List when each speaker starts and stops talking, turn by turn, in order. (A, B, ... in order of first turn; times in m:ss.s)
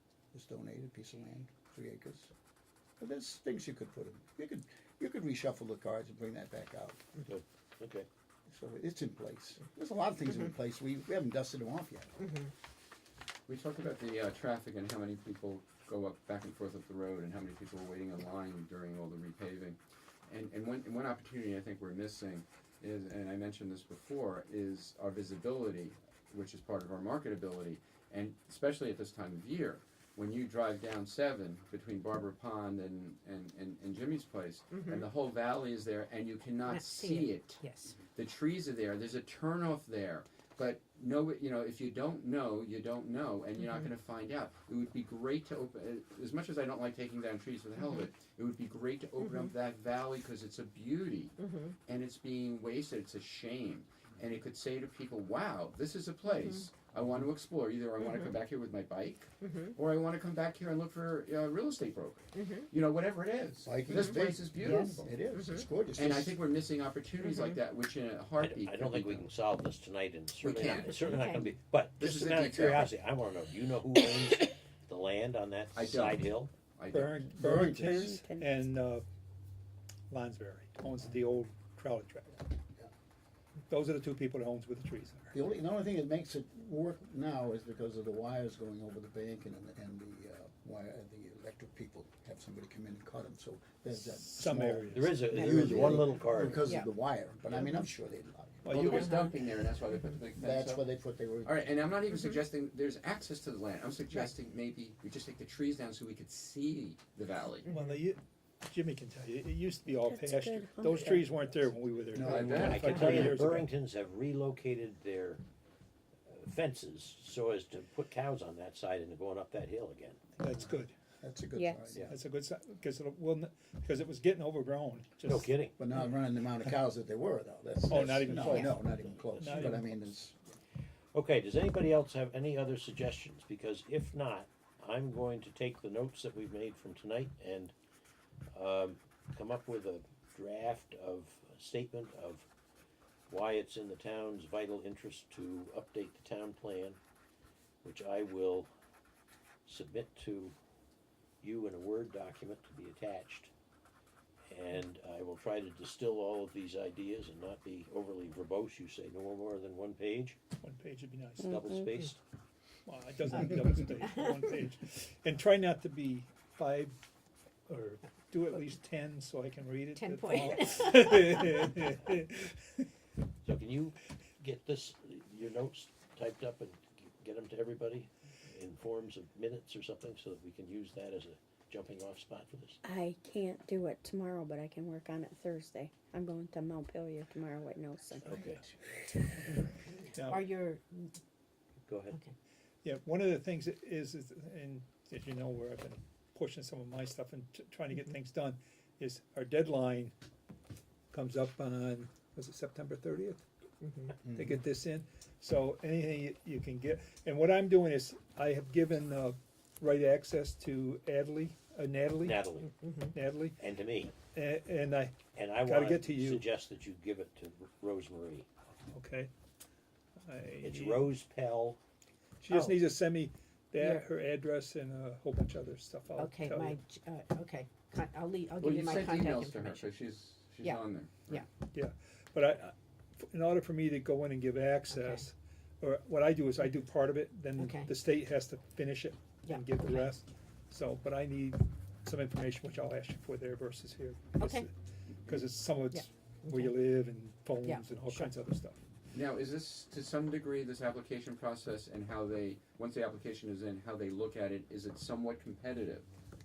0:00.3-0:02.3 A
0:03.0-0:07.0 A
0:07.2-0:08.1 B
0:08.5-0:12.4 A
0:13.5-1:05.1 C
0:34.7-0:35.0 D
0:36.6-0:38.0 D
0:43.6-0:43.8 D
0:49.2-0:49.5 D
0:51.4-0:51.7 D
0:58.0-0:58.3 D
0:59.4-0:59.7 D
1:02.4-1:02.7 D
1:03.6-1:06.4 A
1:04.6-1:05.7 D
1:05.9-1:09.3 C
1:07.2-1:07.5 D
1:08.4-1:16.5 B
1:10.4-1:11.4 C
1:10.8-1:11.5 D
1:12.0-1:13.0 C
1:15.7-1:17.3 C
1:16.9-1:19.0 E
1:17.4-1:18.2 A
1:18.0-1:18.6 F
1:20.1-1:22.4 E
1:23.7-1:25.4 E
1:25.3-1:38.9 A
1:33.9-1:35.8 E
1:34.9-1:36.6 B
1:35.5-1:36.0 D
1:36.6-1:36.9 D
1:38.6-1:39.3 E
1:38.7-1:40.8 C
1:38.9-1:39.2 D
1:40.3-1:41.7 A
1:41.4-1:47.7 C
1:47.7-1:48.0 D
1:47.7-1:53.7 E
1:49.9-1:51.4 F
1:52.1-1:53.4 A
1:52.2-1:53.2 C
1:52.6-1:55.4 B
1:56.3-2:00.2 B
2:00.4-2:00.9 E
2:01.2-2:02.1 A
2:01.5-2:02.0 F
2:02.0-2:05.6 E
2:05.2-2:05.8 B
2:05.7-2:10.5 A
2:07.9-2:10.0 E
2:11.1-2:17.7 B
2:18.5-2:22.5 B
2:23.3-2:27.0 B
2:27.8-2:28.7 B
2:29.6-2:30.6 B
2:31.4-2:33.5 B
2:34.5-2:40.4 B
2:40.5-2:41.6 E
2:41.4-2:42.0 F
2:41.4-2:42.2 B
2:42.8-2:47.0 E
2:47.7-2:52.9 E
2:50.0-2:51.8 D
2:53.4-3:02.8 B
3:02.8-3:08.5 F
3:08.2-3:08.6 A
3:08.2-3:08.6 B
3:10.1-3:10.5 E
3:10.2-3:11.1 D
3:11.8-3:12.2 B
3:12.8-3:20.1 E
3:21.1-3:23.4 E
3:23.8-3:24.2 D
3:24.1-3:32.6 E
3:24.2-3:24.6 A
3:32.2-3:32.7 B
3:32.7-3:33.1 D
3:33.1-3:36.5 E
3:33.6-3:34.2 B
3:35.3-3:38.5 B
3:38.9-3:39.3 E
3:40.2-3:41.1 E
3:40.6-3:41.8 B
3:42.4-3:46.8 E
3:42.5-3:42.8 D
3:43.8-3:44.0 D
3:46.2-3:50.0 D
3:48.6-3:51.2 C
3:50.6-3:51.4 D
3:51.7-4:04.7 E
3:54.9-3:55.2 D
3:57.6-3:57.9 D
3:59.4-4:00.2 D
4:04.4-4:04.7 D
4:05.2-4:08.8 E
4:05.9-4:06.8 D
4:07.6-4:08.3 D
4:09.1-4:16.0 C